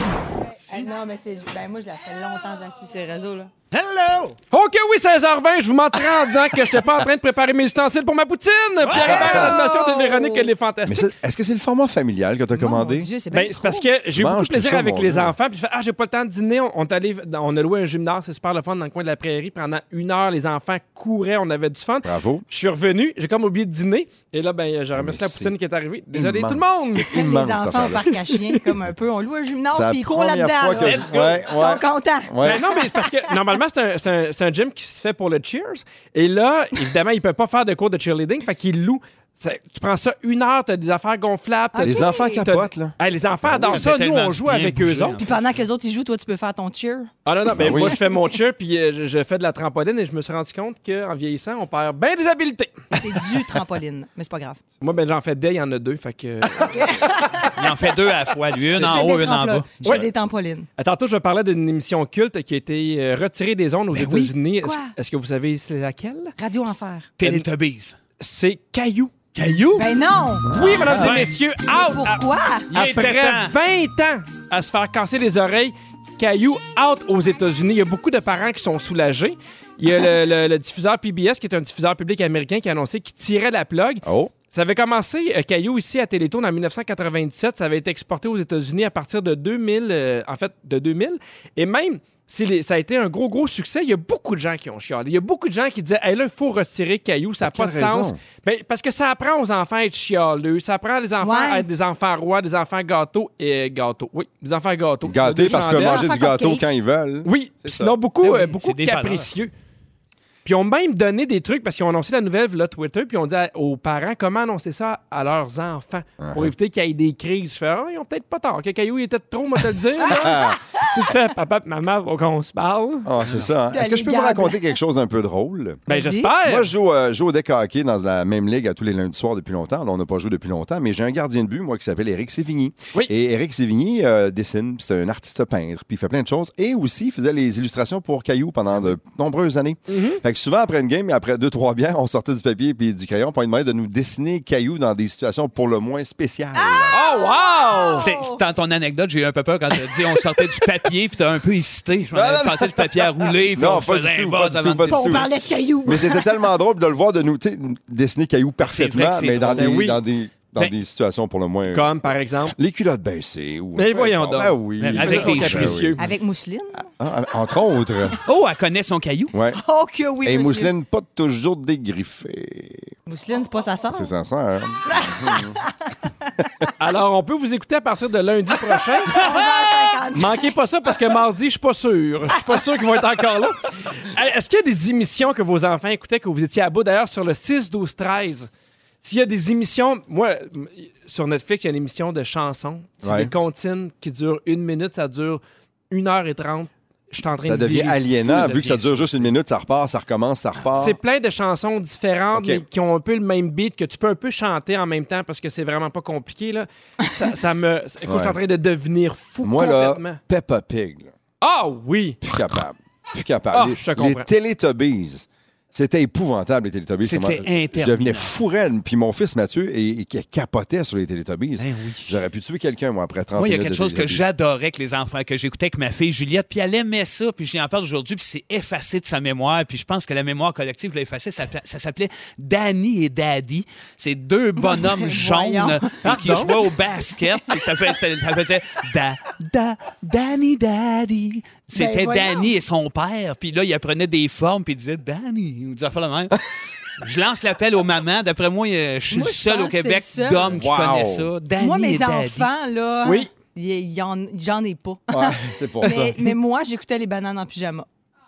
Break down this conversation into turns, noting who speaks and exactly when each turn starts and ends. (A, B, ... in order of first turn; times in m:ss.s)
0:00.6-0:03.5 A
0:03.7-0:04.4 B
0:04.5-0:11.1 C
0:08.8-0:09.4 B
0:09.0-0:09.6 D
0:09.2-0:10.5 A
0:10.9-0:13.1 D
0:12.5-0:13.9 A
0:13.3-0:27.1 C
0:14.1-0:15.3 D
0:22.0-0:22.4 D
0:24.9-0:25.5 D
0:26.1-0:28.1 D
0:27.1-0:33.1 A
0:29.7-0:32.6 D
0:30.8-0:31.1 B
0:32.4-0:45.2 C
0:41.7-0:42.4 A
0:41.8-0:43.8 D
0:43.7-0:45.5 B
0:45.2-0:47.1 A
0:47.2-0:52.8 C
0:47.6-0:48.0 D
0:52.9-0:54.6 A
0:54.8-0:56.9 C
0:56.7-0:57.5 A
0:57.6-0:59.7 B
0:58.7-1:00.7 A
0:59.8-1:00.1 C
1:00.8-1:06.3 C
1:03.9-1:04.3 B
1:04.6-1:04.9 A
1:06.4-1:07.1 A
1:07.2-1:08.0 B
1:08.2-1:09.1 C
1:09.4-1:09.9 B
1:09.8-1:10.5 A
1:10.5-1:46.1 C
1:10.5-1:10.8 D
1:10.8-1:11.4 B
1:11.7-1:12.7 A
1:12.7-1:13.5 B
1:24.0-1:24.3 D
1:37.4-1:38.2 D
1:41.2-1:41.6 A
1:45.0-1:48.0 D
1:45.5-1:46.6 A
1:47.2-1:49.5 C
1:48.2-1:49.3 B
1:50.4-2:03.1 C
1:56.2-1:56.5 D
2:00.1-2:00.6 D
2:03.0-2:05.9 D
2:03.7-2:04.6 A
2:05.9-2:06.4 A
2:05.9-2:06.7 C
2:06.4-2:26.9 D
2:19.9-2:20.2 C
2:26.6-2:28.4 A
2:26.9-2:28.0 C
2:28.0-2:35.3 B
2:32.1-2:35.3 D
2:34.9-2:36.4 A
2:35.8-2:41.9 D
2:38.6-2:39.7 B
2:39.5-2:40.0 C
2:41.7-2:42.6 C
2:42.5-2:46.0 D
2:43.8-2:46.0 C
2:44.8-2:45.8 B
2:46.0-2:46.9 A
2:47.0-2:48.2 D
2:48.2-2:49.3 B
2:49.3-2:49.6 D
2:49.6-2:50.7 A
2:50.2-2:52.9 D
2:53.1-2:54.1 A
2:53.9-2:55.6 D
2:54.9-2:55.6 A
2:56.8-2:59.2 C
2:59.1-3:00.5 A
3:00.1-3:08.5 C
3:09.0-3:18.8 C
3:13.0-3:13.3 D
3:17.4-3:21.0 D
3:18.4-3:19.1 B
3:20.8-3:30.2 C
3:22.3-3:22.6 D
3:28.1-3:28.4 D
3:29.4-3:31.1 D
3:31.4-3:32.2 C
3:32.2-3:44.3 D
3:33.5-3:34.3 C
3:37.0-3:38.3 B
3:41.6-3:42.1 B
3:43.4-4:06.4 B
3:54.6-3:56.7 A
3:56.0-3:56.5 C
4:01.7-4:02.5 A
4:07.0-4:12.5 B
4:09.1-4:10.5 A
4:10.4-4:11.3 D
4:11.6-4:17.9 A
4:13.0-4:13.3 C
4:15.1-4:16.3 D